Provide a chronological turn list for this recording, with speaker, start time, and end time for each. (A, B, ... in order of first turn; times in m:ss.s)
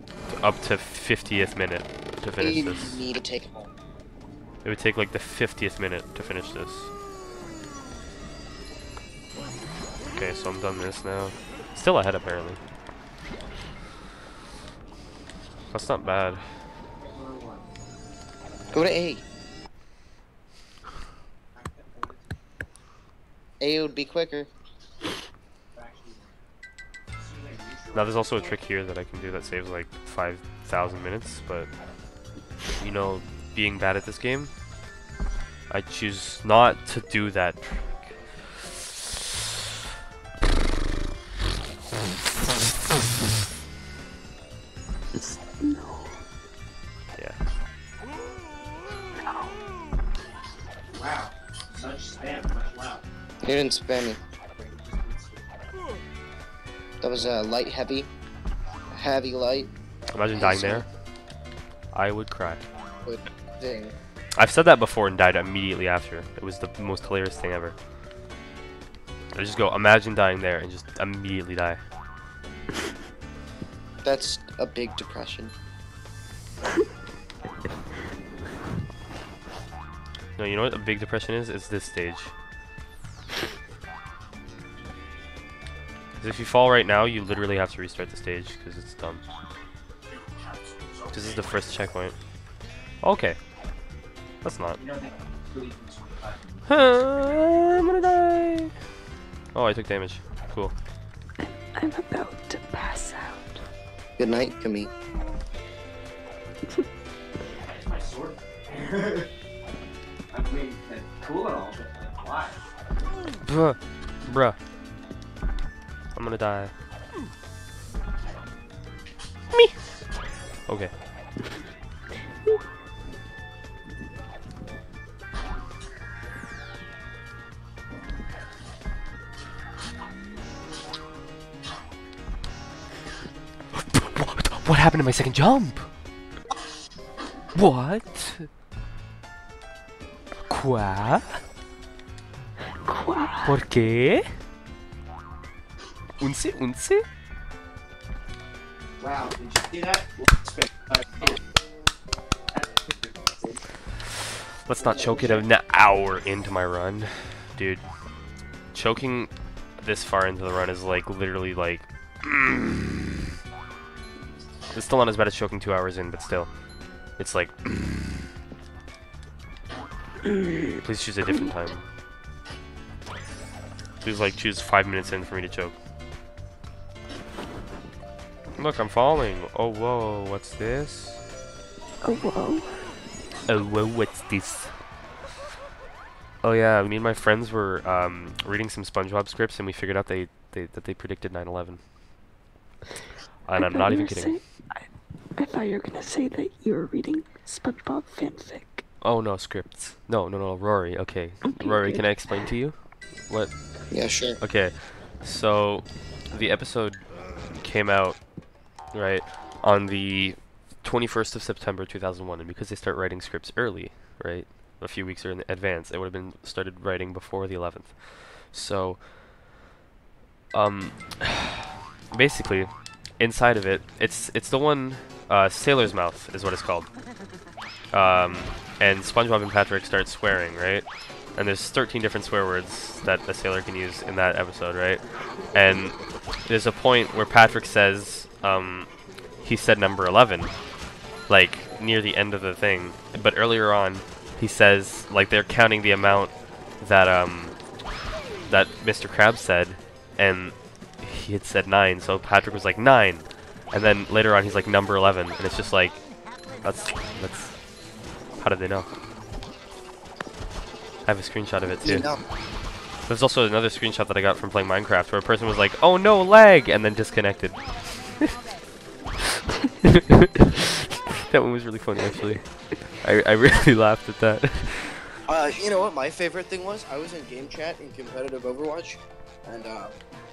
0:00.3-0:03.0 A
0:02.4-0:03.7 B
0:04.6-0:06.9 A
0:10.1-0:12.6 A
0:15.7-0:16.5 A
0:17.0-0:17.6 C
0:18.7-0:19.2 B
0:21.5-0:22.3 C
0:23.6-0:24.5 B
0:25.7-0:26.4 C
0:27.2-0:28.6 C
0:27.9-0:31.7 A
0:32.8-0:34.5 A
0:35.7-0:38.2 A
0:45.1-0:46.2 D
0:49.2-0:49.5 D
0:50.9-0:53.0 C
0:53.4-0:54.2 B
0:54.6-0:55.7 C
0:57.0-0:58.1 B
0:58.9-0:59.7 B
1:00.1-1:00.9 A
1:00.3-1:00.8 B
1:01.9-1:02.6 A
1:03.0-1:03.9 B
1:04.4-1:07.7 A
1:09.3-1:11.8 A
1:14.0-1:15.5 B
1:20.4-1:22.3 A
1:26.2-1:29.2 A
1:31.1-1:32.2 A
1:33.0-1:33.4 A
1:34.4-1:34.8 A
1:34.8-1:36.4 C
1:36.7-1:38.7 A
1:39.5-1:40.7 A
1:41.4-1:43.6 D
1:44.2-1:44.9 B
1:47.5-1:49.3 C
1:50.3-1:52.6 C
1:53.4-1:54.6 A
1:56.1-1:56.7 A
1:59.5-1:59.8 A
2:00.6-2:00.9 A
2:13.7-2:15.9 A
2:17.5-2:18.5 A
2:20.5-2:21.4 A
2:22.8-2:23.6 D
2:23.4-2:24.3 A
2:26.2-2:27.0 A
2:29.0-2:31.4 C
2:32.5-2:33.6 C
2:34.6-2:37.8 A
2:34.8-2:35.4 C
2:38.7-2:43.1 A
2:44.7-2:46.5 A
2:47.2-2:48.0 A
2:50.2-2:51.5 D
2:50.8-2:51.8 A
2:54.0-2:55.7 A
2:58.6-3:01.2 A
3:02.0-3:02.8 D
3:03.5-3:04.7 A
3:06.4-3:11.8 A
3:13.4-3:14.4 A
3:13.6-3:18.8 D
3:19.0-3:23.5 A
3:21.4-3:22.0 D
3:23.9-3:24.4 B
3:24.4-3:28.2 A
3:28.9-3:39.1 A
3:40.5-3:46.9 A
3:47.9-4:00.6 A
4:01.3-4:07.6 A
4:08.5-4:16.0 A
4:16.6-4:17.6 A
4:18.4-4:18.9 A
4:21.0-4:22.1 A
4:21.8-4:22.2 B
4:23.0-4:28.3 A
4:29.8-4:35.1 A
4:35.3-4:40.0 B